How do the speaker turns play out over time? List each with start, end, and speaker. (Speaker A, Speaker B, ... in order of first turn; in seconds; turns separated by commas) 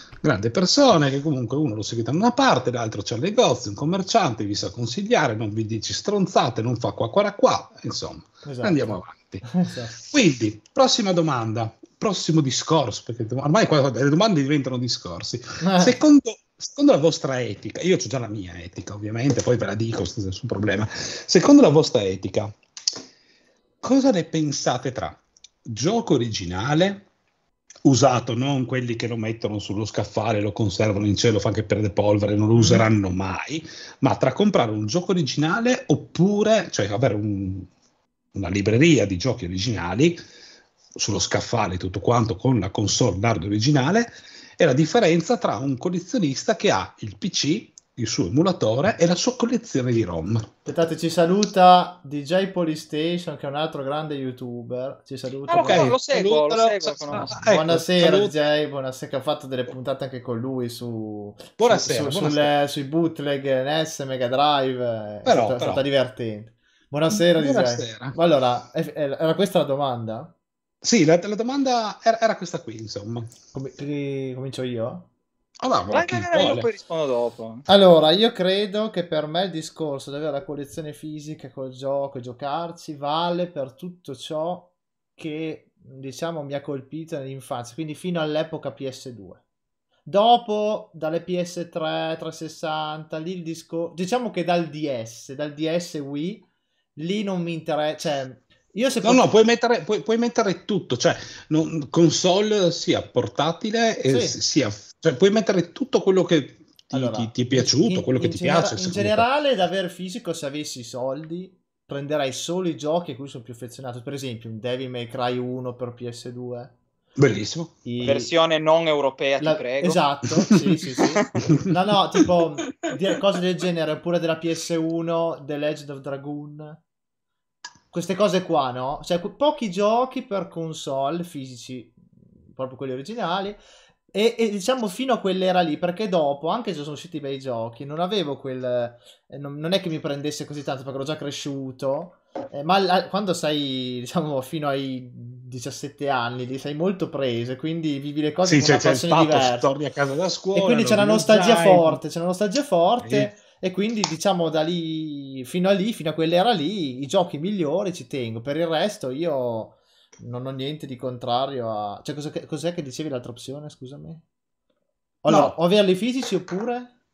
Speaker A: 0.2-9.4, Speaker B: 8.4-8.9, Speaker B: 9.4-9.9, Speaker A: 10.0-22.6, Speaker B: 15.6-16.0, Speaker A: 23.8-27.1, Speaker A: 27.8-37.7, Speaker B: 32.5-32.9, Speaker A: 38.3-40.2, Speaker A: 41.0-50.5, Speaker B: 50.7-55.9, Speaker C: 55.5-57.4, Speaker A: 55.5-58.4, Speaker B: 57.4-70.3, Speaker A: 61.6-62.5, Speaker A: 65.2-65.8, Speaker A: 67.1-68.2, Speaker A: 70.8-73.3, Speaker B: 73.5-75.1, Speaker A: 75.6-76.7, Speaker C: 75.9-77.7, Speaker B: 77.7-89.4, Speaker B: 90.1-96.5, Speaker B: 97.0-99.3, Speaker A: 99.0-109.3, Speaker B: 104.1-104.4, Speaker B: 106.9-116.7, Speaker A: 117.2-117.8, Speaker B: 117.8-118.3, Speaker C: 118.0-120.0, Speaker B: 119.4-126.8, Speaker A: 121.4-122.3, Speaker B: 127.9-133.6, Speaker B: 134.1-149.7, Speaker A: 148.4-152.0, Speaker B: 150.6-164.2, Speaker A: 153.0-153.3, Speaker B: 165.2-166.9, Speaker A: 165.3-165.6